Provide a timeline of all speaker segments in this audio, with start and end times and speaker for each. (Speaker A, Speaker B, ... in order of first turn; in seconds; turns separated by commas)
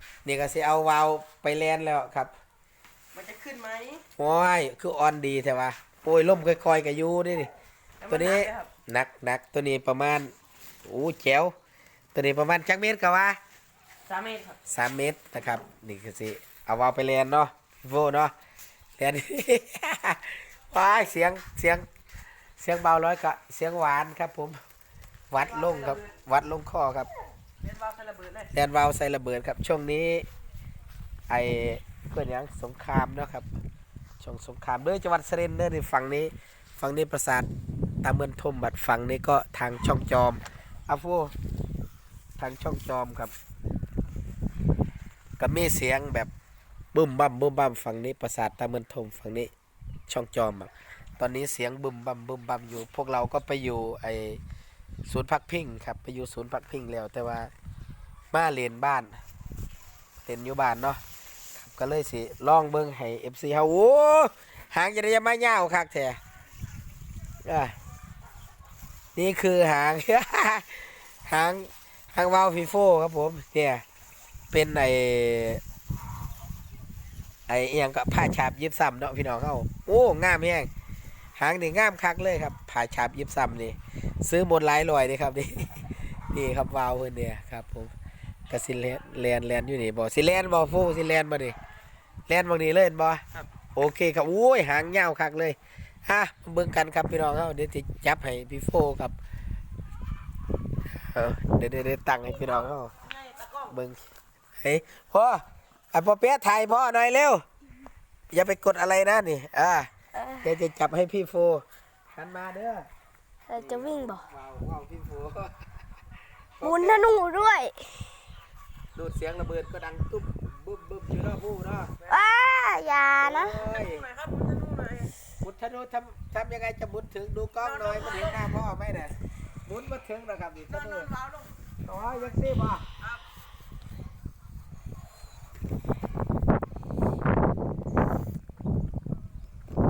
Speaker A: 0.2-2.3, Speaker B: 3.1-4.0, Speaker A: 4.2-7.5, Speaker B: 8.0-8.7, Speaker A: 8.1-10.3, Speaker A: 10.8-11.5, Speaker A: 12.1-13.4, Speaker B: 14.1-14.6, Speaker A: 14.7-18.3, Speaker A: 19.0-21.9, Speaker A: 22.6-24.6, Speaker A: 25.3-27.1, Speaker B: 25.4-26.0, Speaker B: 27.6-28.5, Speaker A: 28.5-30.3, Speaker A: 31.3-33.5, Speaker A: 34.2-37.5, Speaker A: 38.0-41.3, Speaker A: 42.4-43.3, Speaker A: 45.4-46.3, Speaker A: 46.9-49.5, Speaker A: 50.1-54.4, Speaker A: 55.0-57.5, Speaker A: 58.3-59.2, Speaker A: 60.2-61.0, Speaker A: 61.5-66.2, Speaker A: 67.5-67.7, Speaker A: 69.1-73.8, Speaker A: 74.5-75.6, Speaker A: 77.5-80.7, Speaker A: 81.4-87.9, Speaker A: 88.5-91.5, Speaker A: 92.3-93.2, Speaker A: 93.7-99.2, Speaker A: 101.1-102.9, Speaker B: 103.2-103.5, Speaker A: 103.6-104.0, Speaker A: 104.6-107.4, Speaker A: 108.3-109.9, Speaker C: 110.1-110.5, Speaker A: 110.4-112.9, Speaker C: 113.5-114.2, Speaker A: 113.5-115.5, Speaker A: 116.6-117.0, Speaker C: 116.6-118.0, Speaker A: 118.9-122.0, Speaker C: 122.1-123.6, Speaker A: 123.2-124.1, Speaker B: 123.6-125.1, Speaker A: 125.4-129.1, Speaker B: 127.6-128.4, Speaker A: 129.7-131.1, Speaker B: 130.7-131.5, Speaker A: 131.8-132.8